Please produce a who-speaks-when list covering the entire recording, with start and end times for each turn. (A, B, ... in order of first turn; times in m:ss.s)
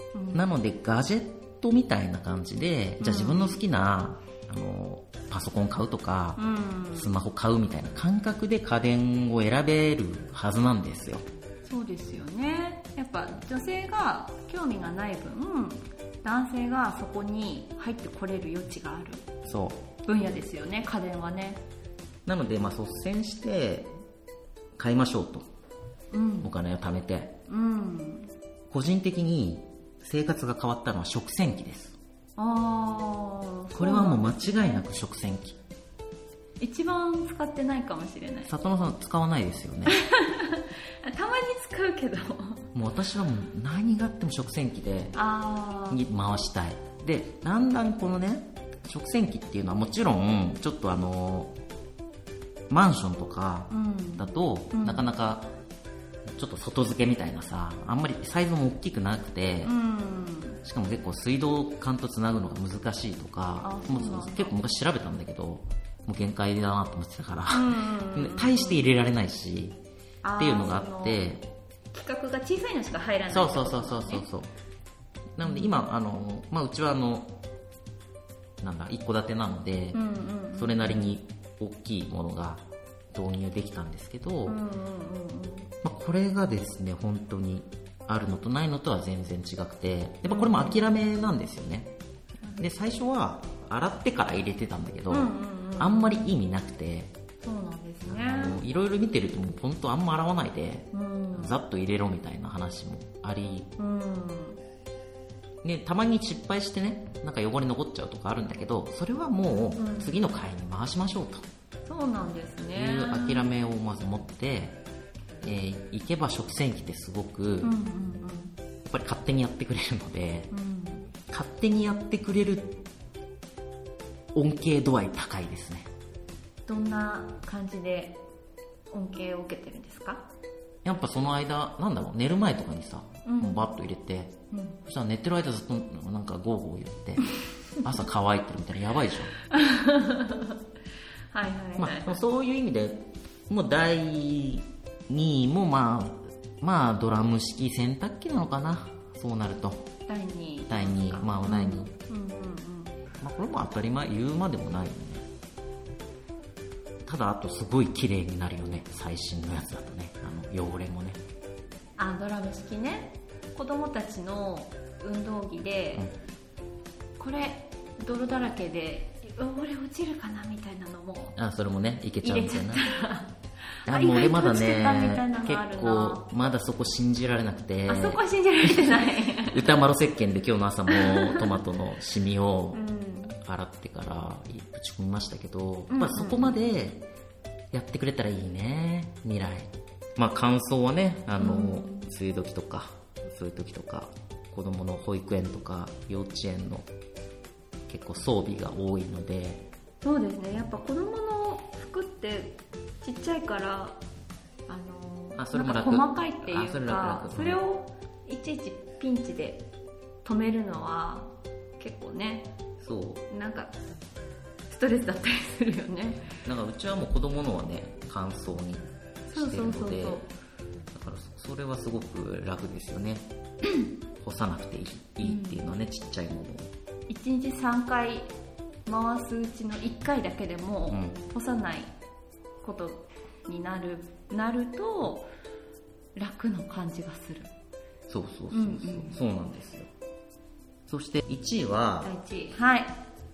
0:00.1-0:00.5 A
0:00.3-0:06.4 B
0:03.0-0:03.6 A
0:06.4-0:07.1 A
0:06.9-0:11.2 B
0:11.6-0:19.2 A
0:19.4-0:19.8 B
0:20.0-0:21.6 A
0:22.2-0:23.9 B
0:24.8-0:25.5 B
0:26.1-0:26.5 A
0:26.4-0:27.4 B
0:27.5-0:28.3 A
0:28.7-0:32.0 B
0:32.4-0:34.8 A
0:33.7-0:35.6 B
0:36.6-0:38.5 A
0:38.5-0:40.0 B
0:39.9-0:42.6 A
0:42.7-0:45.2 B
0:45.1-0:46.0 A
0:45.9-0:51.6 B
0:52.7-0:55.5 B
0:53.7-0:55.0 A
0:56.4-0:59.7 B
0:59.6-1:00.6 A
1:00.6-1:09.8 B
1:03.6-1:04.5 A
1:07.5-1:08.8 A
1:10.2-1:11.3 A
1:10.4-1:11.4 B
1:11.9-1:14.2 A
1:13.3-1:14.5 B
1:15.4-1:17.4 B
1:18.6-1:20.0 B
1:19.9-1:21.1 A
1:20.5-1:22.6 B
1:23.1-1:24.6 B
1:24.4-1:25.7 A
1:25.8-1:31.9 B
1:30.2-1:30.8 A
1:32.6-1:37.1 B
1:35.1-1:36.2 A
1:37.4-1:38.6 A
1:38.0-1:43.7 B
1:40.9-1:41.5 A
1:43.8-1:44.6 A
1:45.6-1:51.4 B
1:49.8-1:50.1 A
1:51.8-1:53.5 A
1:52.7-1:54.8 B
1:55.4-1:57.7 B
1:57.6-1:58.5 A
1:58.8-2:00.5 B
2:00.5-2:01.1 A
2:01.3-2:02.8 B
2:04.3-2:05.9 B
2:06.6-2:08.2 A
2:08.9-2:10.2 A
2:10.8-2:17.3 B
2:13.2-2:13.6 A
2:14.5-2:14.8 A
2:17.8-2:19.3 B
2:19.5-2:20.6 A
2:21.3-2:22.1 A
2:21.8-2:29.8 B
2:30.1-2:33.0 A
2:30.7-2:31.9 B
2:33.2-2:35.2 B
2:37.0-2:41.2 B
2:42.0-2:46.1 A
2:47.2-2:51.4 A
2:51.4-2:52.9 B
2:52.2-2:53.3 A
2:53.8-2:56.2 A
2:53.9-3:02.8 B
2:57.9-2:59.8 A
3:00.9-3:01.5 A
3:02.7-3:03.4 A
3:03.4-3:07.1 B
3:05.9-3:06.6 A
3:07.7-3:16.9 B
3:11.4-3:12.1 A
3:17.9-3:19.6 B
3:20.0-3:24.0 A
3:24.7-3:29.6 A
3:25.4-3:27.6 B
3:30.2-3:32.5 A
3:32.8-3:33.2 B
3:33.3-3:33.7 A
3:34.7-3:36.3 A
3:36.4-3:40.2 B
3:39.3-3:40.3 A
3:40.9-3:43.3 B
3:44.2-3:46.7 B
3:45.2-3:45.6 A
3:47.1-3:48.3 A
3:48.8-3:51.9 A
3:50.9-3:51.2 B
3:52.6-3:55.3 A
3:56.1-3:57.5 A
3:58.1-3:59.9 B
3:58.5-3:59.2 A
4:00.9-4:02.1 B
4:02.0-4:03.0 A